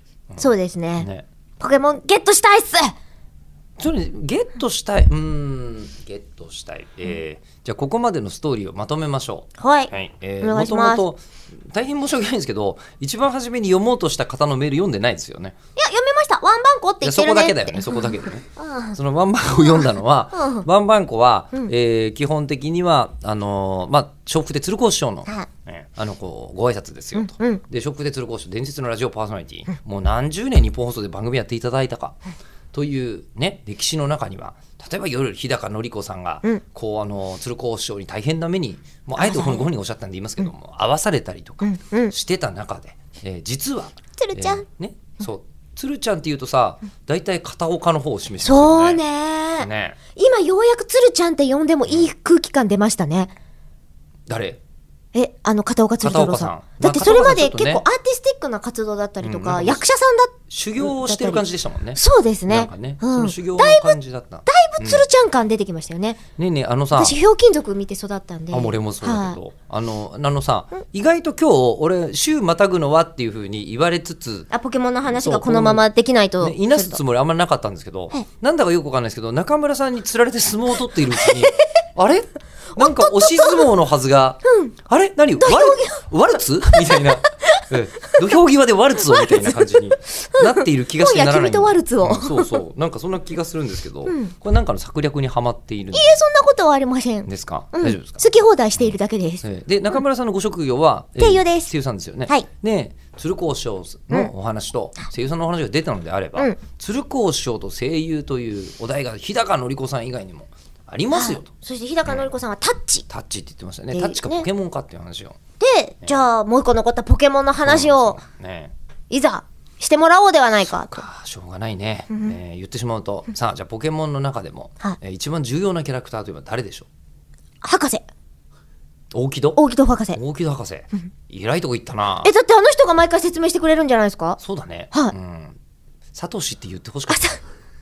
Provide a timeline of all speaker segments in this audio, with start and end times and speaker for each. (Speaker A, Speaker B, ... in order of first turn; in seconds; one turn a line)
Speaker A: 0.3-1.2
Speaker B: 0.4-1.1
Speaker B: 1.6-3.0
Speaker A: 3.8-15.6
Speaker B: 9.6-11.1
Speaker B: 15.8-19.0
Speaker A: 17.0-32.2
Speaker B: 19.5-20.7
Speaker B: 27.2-27.6
Speaker A: 32.7-49.0
Speaker B: 39.2-39.7
Speaker B: 41.6-42.1
Speaker B: 44.2-44.6
Speaker B: 48.4-53.3
Speaker A: 49.6-50.0
Speaker A: 54.3-54.6
Speaker B: 55.1-61.4
Speaker A: 56.0-57.8
Speaker A: 59.2-59.9
Speaker A: 60.5-65.0
Speaker B: 62.0-66.2
Speaker A: 66.4-67.2
Speaker B: 67.0-69.4
Speaker A: 68.5-74.5
Speaker B: 74.5-77.0
Speaker A: 75.0-75.8
Speaker A: 76.4-96.2
Speaker B: 81.2-81.6
Speaker B: 82.8-83.7
Speaker B: 84.5-84.7
Speaker B: 85.4-86.0
Speaker B: 86.7-87.7
Speaker B: 89.0-89.7
Speaker B: 90.3-92.6
Speaker B: 94.1-94.3
Speaker B: 95.9-99.4
Speaker A: 97.3-111.5
Speaker B: 101.2-101.7
Speaker B: 111.1-113.1
Speaker A: 112.0-112.3
Speaker A: 113.1-115.4
Speaker B: 113.9-114.5
Speaker B: 115.6-118.2
Speaker A: 117.6-118.7
Speaker B: 119.1-121.0
Speaker A: 120.8-126.9
Speaker B: 122.1-122.4
Speaker B: 127.6-128.1
Speaker A: 129.1-129.6
Speaker B: 129.6-130.2
Speaker A: 130.1-132.3
Speaker B: 132.2-134.4
Speaker A: 134.4-135.6
Speaker A: 136.1-137.2
Speaker B: 137.1-137.4